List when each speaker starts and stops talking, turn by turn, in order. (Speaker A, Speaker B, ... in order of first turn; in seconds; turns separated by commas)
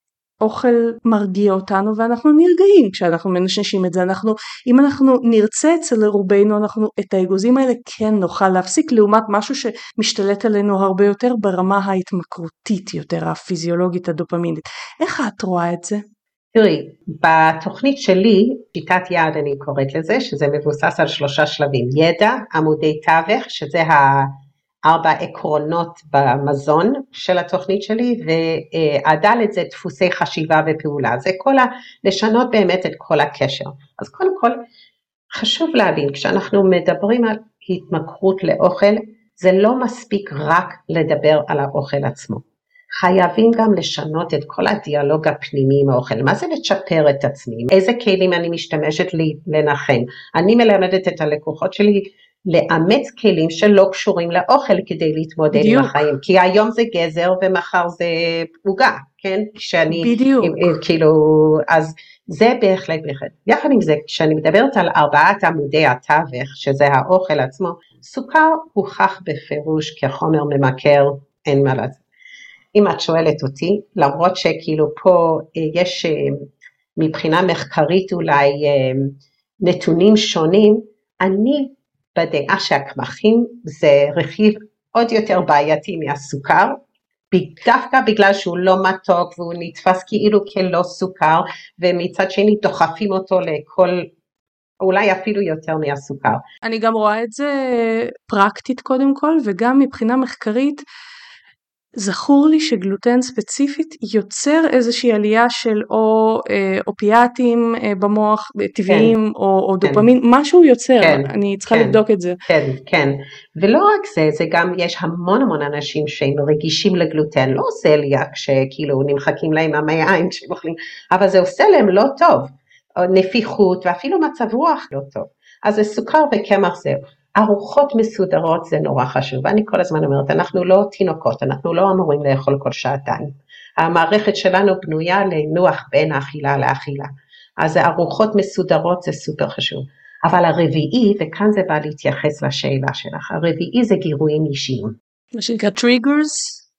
Speaker A: 0.4-16.0, Speaker B: 16.5-24.3, Speaker B: 24.8-34.6, Speaker B: 35.3-42.4, Speaker B: 43.0-72.0, Speaker A: 55.5-55.9, Speaker A: 59.9-60.7, Speaker B: 72.7-76.3, Speaker B: 77.0-94.1, Speaker B: 94.8-96.4, Speaker A: 96.6-100.8, Speaker A: 102.0-112.4, Speaker B: 108.9-109.1, Speaker B: 109.8-110.1, Speaker B: 111.0-145.0, Speaker A: 145.3-146.6